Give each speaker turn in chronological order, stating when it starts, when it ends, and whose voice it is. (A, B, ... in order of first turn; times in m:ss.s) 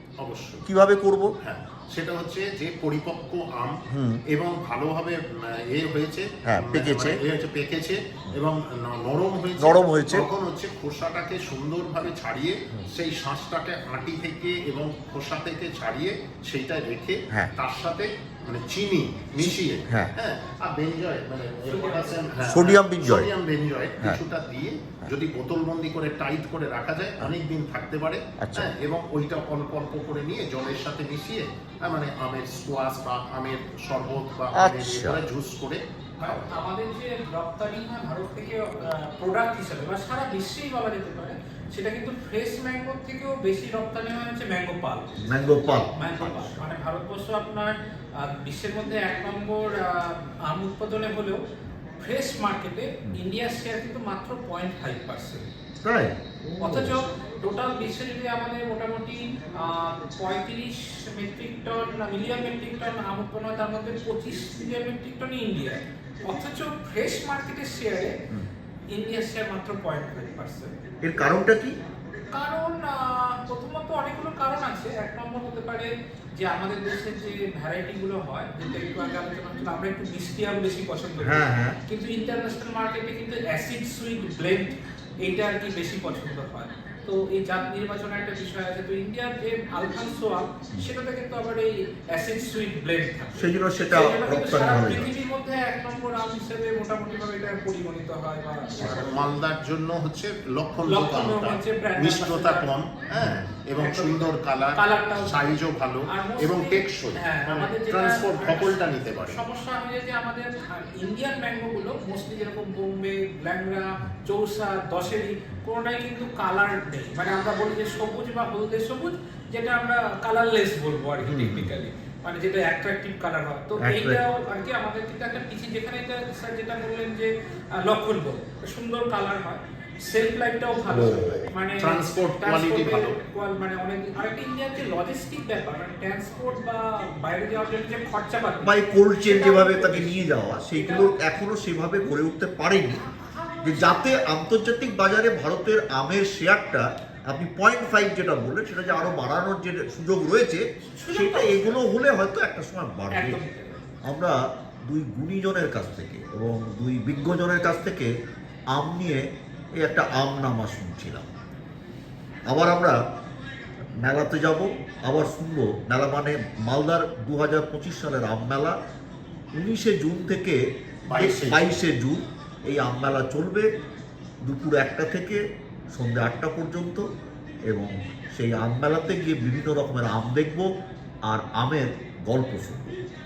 0:00.2-0:00.6 A
0:00.6-0:01.3 B
0:01.4-0:03.8 A
0:03.9-0:04.2 B
0:04.3-0:36.6 A
0:06.4-0:07.2 B
0:09.6-0:10.3 B
0:19.4-0:20.1 B
0:21.7-0:22.4 C
0:22.5-0:23.3 B
0:28.4-0:28.7 B
0:34.6-0:35.2 B
0:36.2-0:51.4 C
0:45.2-0:46.7 B
0:52.0-0:55.5 C
0:55.8-0:57.0 B
0:56.6-1:08.1 C
1:08.9-1:10.7 C
1:11.0-1:11.8 B
1:12.3-1:39.2 C
1:21.2-1:21.8 B
1:33.4-1:35.1 B
1:38.8-1:49.4 A
1:40.9-1:42.7 C
1:43.1-1:43.5 B
1:43.8-1:45.4 C
1:46.1-2:21.1 C
2:01.2-2:01.7 B
2:03.8-2:04.2 B
2:10.9-2:11.5 B
2:11.8-2:13.2 A
2:18.6-2:23.0 B
2:23.4-2:24.0 C
2:23.6-2:33.4 B
2:31.0-2:31.8 C
2:33.1-2:33.8 C
2:34.0-2:38.1 B
2:38.7-2:41.3 B
2:42.5-2:43.0 B
2:44.0-2:48.8 B
2:49.6-2:53.7 B
2:51.1-2:51.8 A
2:54.4-2:55.4 B
2:55.9-2:57.1 B
2:57.7-3:00.7 B
3:01.2-3:02.9 B